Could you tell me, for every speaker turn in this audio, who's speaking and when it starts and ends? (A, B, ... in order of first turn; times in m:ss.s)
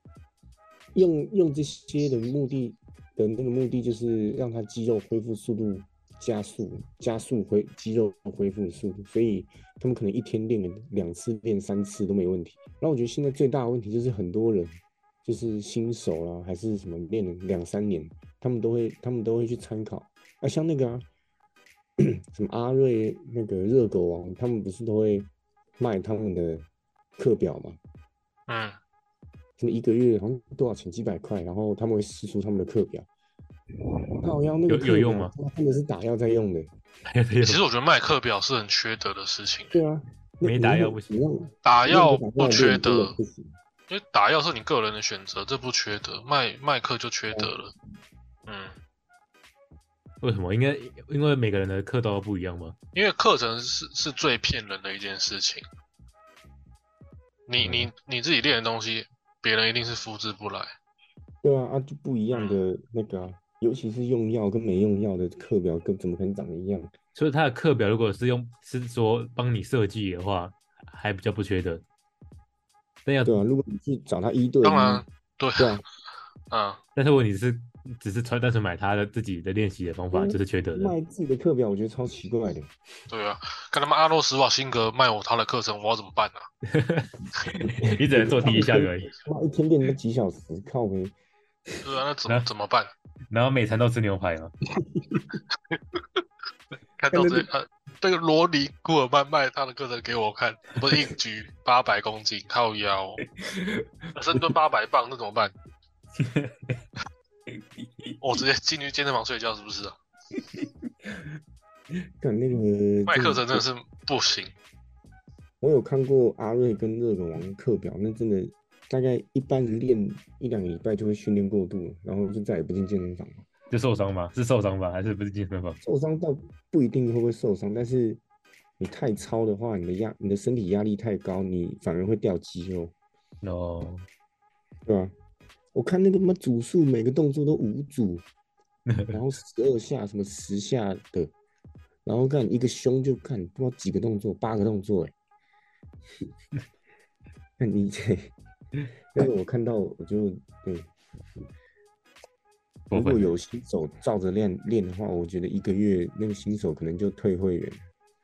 0:00.9-0:21.0 A
0:22.0-0:26.7 A
0:27.2-0:27.8 A
0:28.5-0:28.8 B
0:29.6-0:33.1 A
0:34.2-0:36.7 A
0:34.7-0:35.3 C
0:37.1-0:37.6 C
0:37.4-0:39.8 B
0:39.7-0:43.6 A
0:40.4-0:41.2 C
0:41.6-0:43.2 B
0:43.9-0:47.7 B
0:48.5-0:48.8 B
0:50.2-0:52.8 C
0:53.0-0:55.6 B
0:57.5-1:00.7 B
1:01.4-1:06.9 A
1:02.3-1:02.6 B
1:07.2-1:11.8 C
1:13.0-1:13.4 C
1:13.2-1:15.0 A
1:14.6-1:15.8 B
1:15.6-1:15.8 A
1:16.5-1:16.8 B
1:17.0-1:21.0 C
1:20.1-1:22.7 A
1:23.1-1:26.4 B
1:26.7-1:29.1 C
1:27.8-1:31.2 A
1:31.8-1:32.9 B
1:33.3-1:34.5 C
1:34.8-1:35.4 A
1:37.0-1:43.2 B
1:37.1-1:37.5 A
1:43.4-1:43.9 C
1:44.2-1:45.5 B
1:46.2-1:46.8 C
1:47.8-1:48.2 C
1:48.2-1:50.0 B
1:52.2-1:53.6 A
1:53.1-1:54.5 B
1:55.6-2:03.4 A
2:03.7-2:05.8 C
2:05.8-2:08.2 A
2:08.8-2:12.9 A
2:13.4-2:14.1 C
2:14.9-2:15.1 A
2:15.7-2:18.2 A
2:18.9-2:19.2 C
2:19.1-2:21.3 A
2:22.0-2:25.1 A
2:27.6-2:28.3 A
2:29.1-2:30.9 A
2:32.9-2:33.2 C
2:32.9-2:37.8 A